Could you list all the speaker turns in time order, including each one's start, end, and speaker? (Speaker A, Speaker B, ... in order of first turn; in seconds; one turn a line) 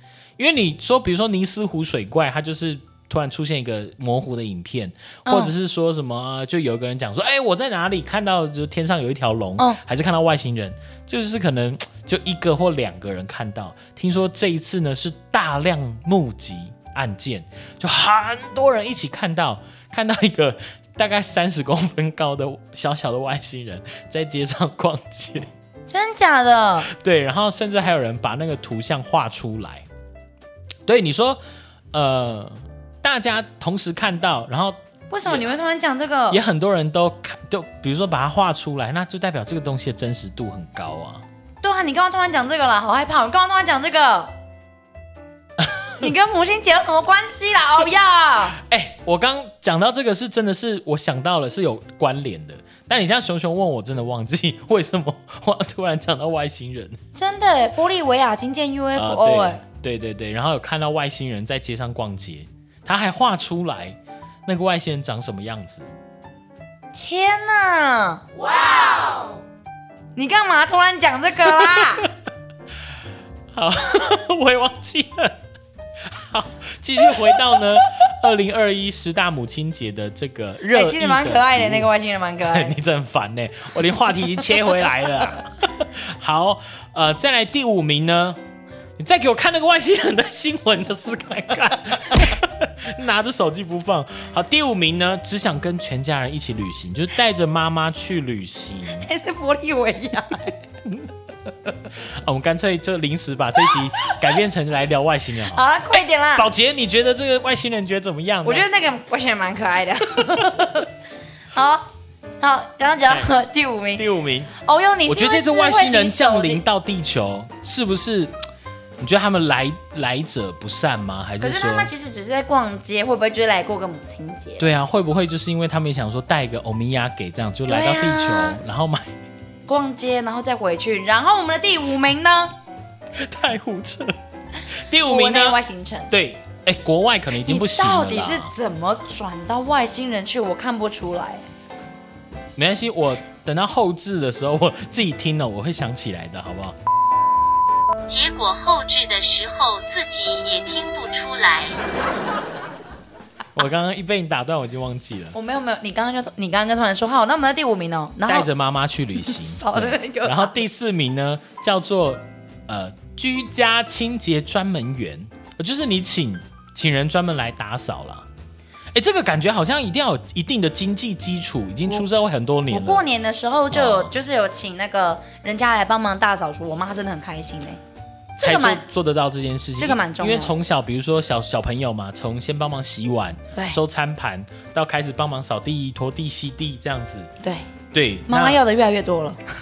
Speaker A: 0.4-25.5
Speaker B: 5.2-5.5
Speaker B: 25.9-26.9
Speaker A: 26.8-29.9
Speaker A: 30.9-31.4
Speaker A: 31.9-35.5
Speaker B: 35.1-36.4
Speaker A: 36.3-41.2
Speaker B: 41.6-44.3
Speaker B: 46.0-48.6
Speaker A: 48.6-57.0
Speaker B: 57.1-59.6
Speaker A: 58.9-65.9
Speaker B: 66.9-69.3
Speaker B: 70.1-72.1
Speaker A: 71.7-72.1
Speaker A: 73.5-75.3
Speaker A: 76.1-81.9
Speaker B: 80.7-82.8
Speaker A: 82.4-88.4
Speaker A: 89.0-99.1
Speaker B: 99.0-100.6
Speaker A: 101.9-105.6
Speaker B: 105.4-106.5
Speaker A: 106.3-108.7
Speaker B: 108.4-110.9
Speaker B: 111.5-116.6
Speaker A: 114.0-114.5
Speaker A: 115.1-118.3
Speaker A: 119.0-121.9
Speaker B: 121.4-124.7
Speaker A: 124.6-129.1
Speaker B: 127.7-128.6
Speaker B: 129.7-132.6
Speaker A: 133.2-134.2
Speaker A: 134.7-135.6
Speaker B: 135.0-136.1
Speaker A: 136.1-138.5
Speaker B: 137.3-141.4
Speaker A: 142.6-146.8
Speaker C: 148.1-151.8
Speaker A: 153.5-155.3
Speaker B: 155.3-158.5
Speaker A: 158.2-168.3
Speaker B: 159.2-160.6
Speaker A: 168.9-173.0
Speaker B: 172.7-177.8
Speaker A: 173.7-174.1
Speaker A: 178.4-187.3
Speaker B: 178.4-178.8
Speaker B: 179.8-180.6
Speaker B: 187.4-187.7
Speaker A: 187.9-188.6
Speaker B: 188.3-189.4